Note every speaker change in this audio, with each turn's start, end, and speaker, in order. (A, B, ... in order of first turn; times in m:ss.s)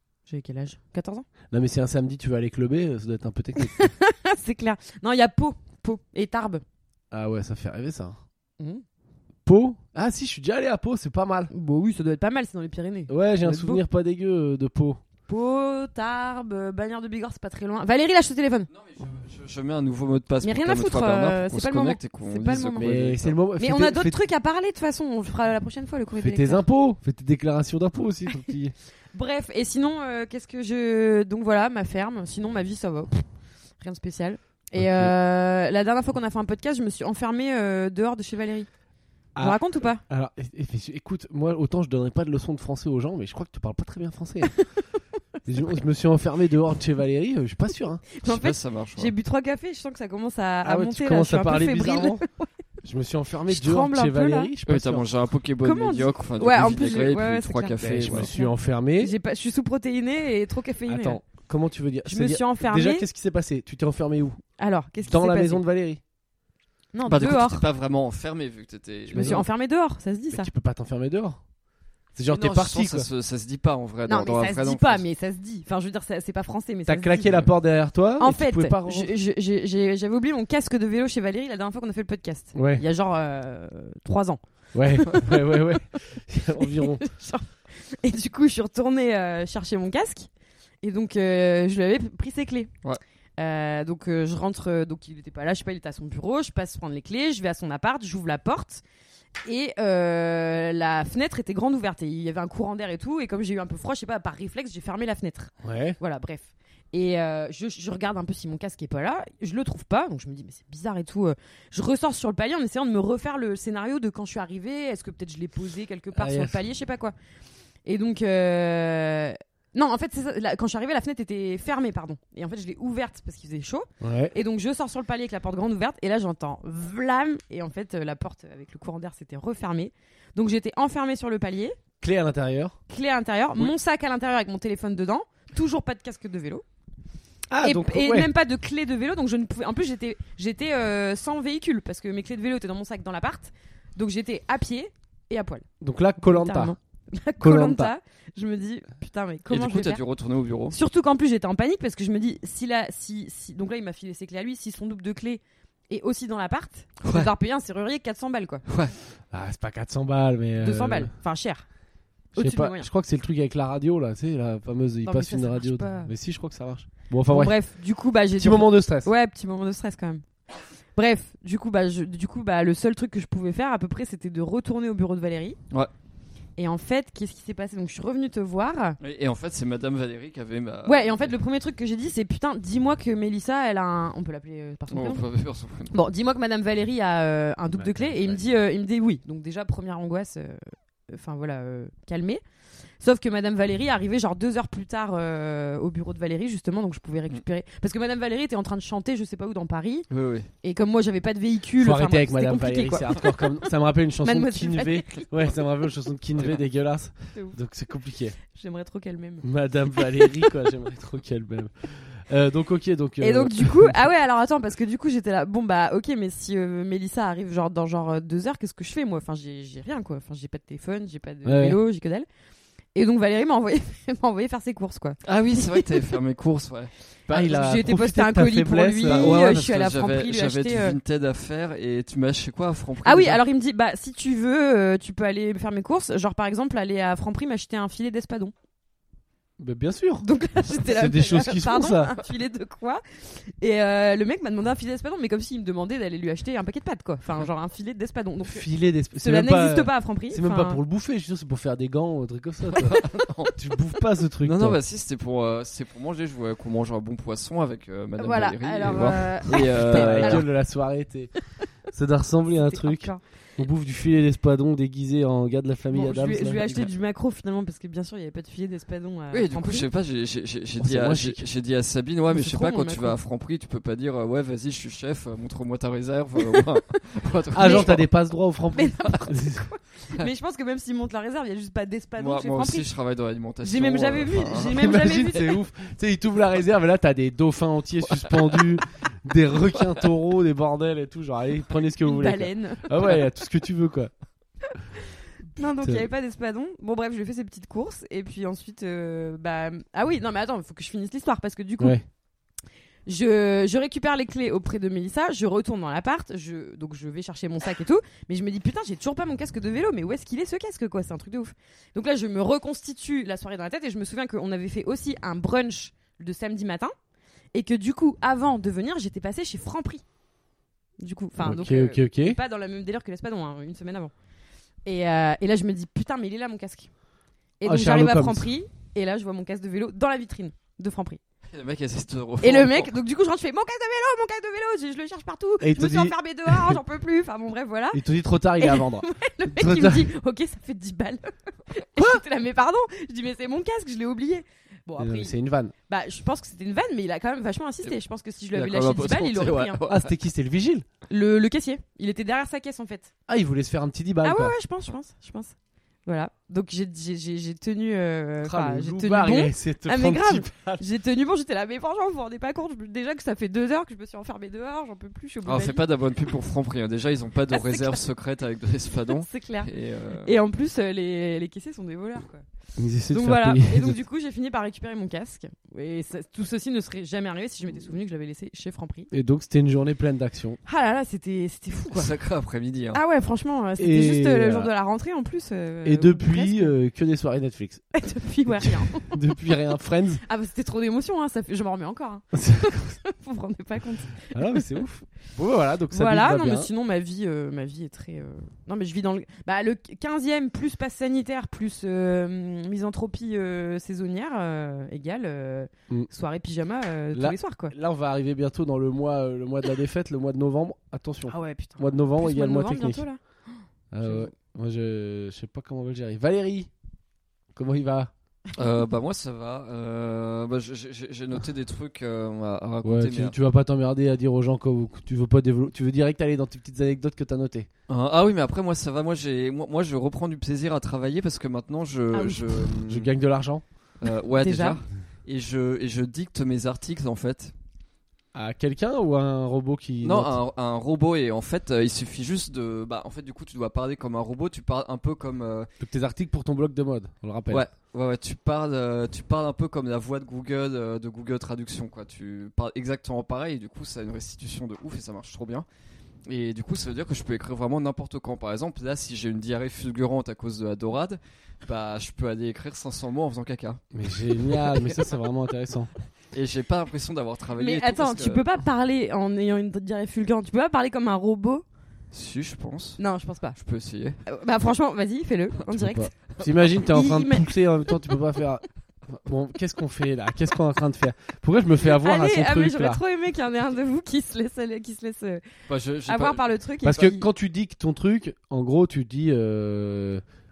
0:00.3-0:01.2 A
0:01.5-0:03.9 B
0:03.6-0:06.6 A
0:07.1-0:08.2 B
0:08.6-0:08.8 A
0:09.4-0:11.5 B
0:11.5-0:13.8 A
0:13.1-0:15.0 B
0:15.3-0:18.7 A
0:18.7-0:23.3 C
0:20.4-0:22.9 A
0:22.8-0:24.2 B
0:23.6-0:26.6 A
0:26.2-0:28.7 B
0:29.1-0:33.2 A
0:33.8-0:38.7 A
0:34.8-0:35.1 B
0:39.3-0:44.5 B
0:39.4-0:40.0 A
0:45.4-0:48.0 B
0:48.1-0:52.5 A
0:48.2-0:49.1 C
0:50.6-0:52.2 B
0:52.8-0:55.1 B
0:53.5-0:54.5 A
0:54.6-0:58.3 C
0:55.6-1:01.2 A
0:57.8-0:59.1 B
1:00.9-1:04.4 B
1:02.0-1:03.1 A
1:04.6-1:05.6 A
1:05.0-1:06.0 B
1:06.9-1:07.6 A
1:07.0-1:09.4 C
1:09.1-1:10.5 A
1:09.1-1:09.4 B
1:10.3-1:11.4 B
1:12.1-1:13.1 B
1:12.3-1:15.0 C
1:14.1-1:17.5 A
1:16.9-1:19.1 B
1:18.2-1:25.6 A
1:22.5-1:22.8 B
1:24.7-1:27.0 B
1:26.6-1:30.3 A
1:30.8-1:32.7 A
1:33.4-1:38.8 A
1:39.4-1:57.1 A
1:45.6-1:46.0 B
1:56.1-1:56.6 B
1:57.8-2:11.8 A
2:04.0-2:04.3 B
2:12.0-2:12.8 B
2:12.9-2:16.6 A
2:17.5-2:18.3 B
2:17.6-2:25.7 A
2:25.8-2:26.7 B
2:26.2-2:30.0 A
2:27.4-2:27.9 B
2:29.5-2:30.8 C
2:30.7-2:38.6 A
2:37.0-2:37.3 C
2:38.7-2:38.9 C
2:39.3-2:41.1 B
2:40.6-2:41.6 A
2:42.3-2:42.9 A
2:42.4-2:47.5 B
2:45.0-2:46.1 A
2:47.3-2:50.2 A
2:48.4-2:49.1 B
2:51.0-2:55.6 A
2:56.6-2:59.0 A
2:59.0-3:01.4 C
3:00.8-3:05.2 A
3:04.9-3:05.9 C
3:05.9-3:12.4 A
3:07.7-3:08.4 C
3:13.0-3:20.0 A
3:20.1-3:20.5 C
3:20.6-3:23.5 A
3:21.8-3:28.4 B
3:24.2-3:25.3 A
3:28.5-3:30.5 A
3:29.4-3:33.9 B
3:33.2-3:42.3 A
3:41.4-3:41.8 B
3:42.9-3:46.0 A
3:45.2-3:46.9 C
3:47.3-3:49.6 B
3:47.3-3:51.0 A
3:49.0-3:53.4 C
3:53.0-3:58.5 A
3:59.6-4:02.2 B
4:00.2-4:08.6 A
4:08.4-4:13.0 B
4:09.2-4:10.8 A
4:12.7-4:13.5 C
4:13.5-4:14.8 B
4:14.4-4:20.4 C
4:18.2-4:20.4 A
4:19.8-4:21.3 B
4:21.9-4:26.8 B
4:22.5-4:23.2 A
4:25.9-4:29.9 A
4:29.3-4:38.1 C
4:30.8-4:31.4 B
4:32.3-4:33.2 A
4:37.5-4:39.7 B
4:37.6-4:38.0 A
4:38.7-4:42.9 A
4:42.2-4:44.8 C
4:43.6-4:45.5 A
4:44.7-4:54.1 B
4:52.0-4:53.0 A
4:55.6-5:02.0 A
4:55.8-4:56.1 B
5:03.0-5:16.9 A
5:17.5-5:20.0 A
5:21.0-5:24.1 A
5:21.4-5:22.4 B
5:24.8-5:26.9 A
5:27.6-5:31.2 A
5:27.6-5:28.5 B
5:31.5-5:32.9 C
5:32.4-5:38.0 A
5:35.6-5:36.8 B
5:37.9-5:40.1 B
5:38.6-5:45.3 A
5:42.0-5:42.2 B
5:45.0-5:45.7 B
5:45.9-5:49.9 A
5:48.5-5:50.1 C
5:49.9-5:50.8 B
5:51.1-5:53.1 A
5:53.3-5:54.5 B
5:54.2-6:05.8 A
5:58.4-6:00.8 B
6:05.4-6:10.4 C
6:07.5-6:08.0 A
6:09.2-6:09.7 A
6:10.2-6:12.4 A
6:12.8-6:14.0 B
6:13.1-6:19.1 A
6:19.1-6:20.6 B
6:20.6-6:22.1 A
6:21.9-6:23.0 C
6:22.9-6:26.7 A
6:23.8-6:24.7 B
6:25.8-6:27.8 B
6:27.9-6:29.6 A
6:28.5-6:30.2 B
6:30.2-6:34.8 A
6:32.3-6:32.8 B
6:34.3-6:36.7 B
6:35.9-6:47.7 A
6:47.1-6:53.0 B
6:51.3-6:53.2 A
6:53.9-6:56.7 B
6:54.0-6:54.3 A
6:57.5-6:58.1 B
6:58.5-7:03.3 C
7:02.8-7:07.7 B
7:07.9-7:13.1 C
7:12.1-7:12.6 A
7:12.8-7:13.6 B
7:14.0-7:17.5 C
7:14.3-7:14.8 A
7:18.3-7:20.4 B
7:20.0-7:25.7 C
7:25.8-7:27.6 B
7:27.5-7:35.6 C
7:36.3-7:43.8 C
7:43.9-7:45.9 B
7:46.3-7:48.4 C
7:47.6-7:51.6 A
7:52.1-7:53.0 C
7:53.0-7:53.6 A
7:53.6-7:54.2 C
7:54.2-7:56.1 A
7:55.7-8:03.0 B
7:56.8-7:57.5 A
8:01.8-8:05.4 A
8:05.7-8:06.4 C
8:06.0-8:07.2 A
8:06.8-8:10.2 B